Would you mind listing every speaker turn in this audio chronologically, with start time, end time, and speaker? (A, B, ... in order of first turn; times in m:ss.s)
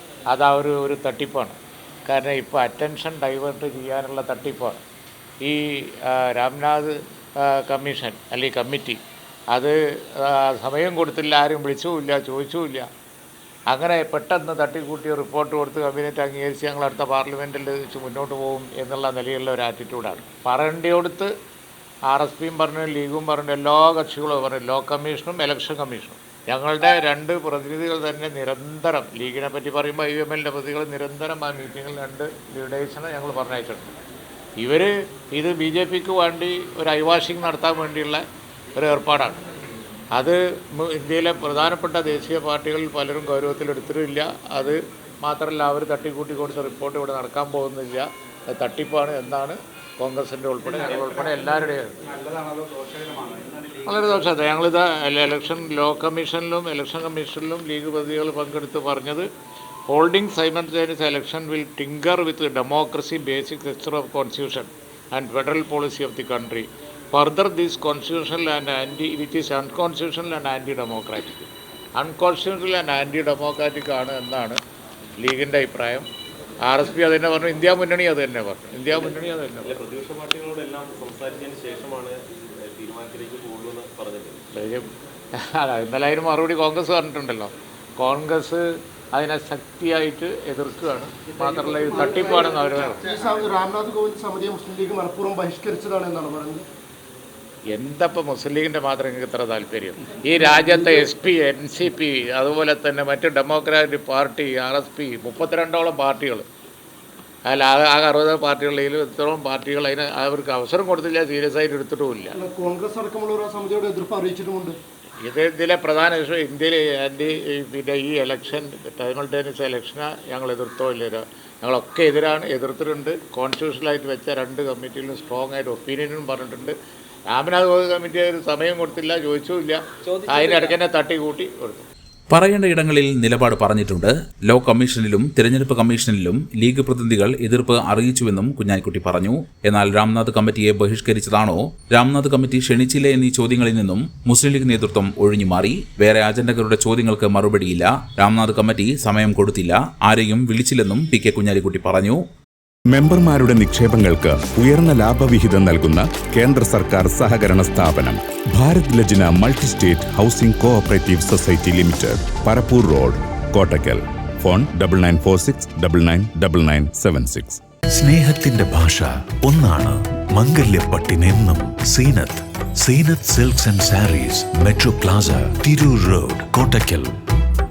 0:00.3-0:04.8 A
0:05.4-0:09.0 A
0:09.5-0:12.9 A
0:13.7-0:21.3 A
0:22.1-0:33.9 A
0:34.6-0:38.2 A
0:38.8-0:39.4 A
0:40.1-0:52.0 A
0:53.8-0:59.3 A
0:59.9-1:14.6 A
1:15.2-1:16.1 A
1:16.7-1:19.7 A
1:18.9-1:24.4 B
1:24.6-1:24.9 A
1:25.6-1:28.6 A
1:29.2-1:33.0 A
1:32.1-1:36.6 C
1:37.7-1:46.4 A
1:47.5-1:52.4 A
1:52.3-1:54.8 C
1:55.2-2:06.8 A
2:07.3-2:11.8 A
2:12.3-2:32.2 D
2:32.9-2:47.6 E
2:47.9-2:57.1 F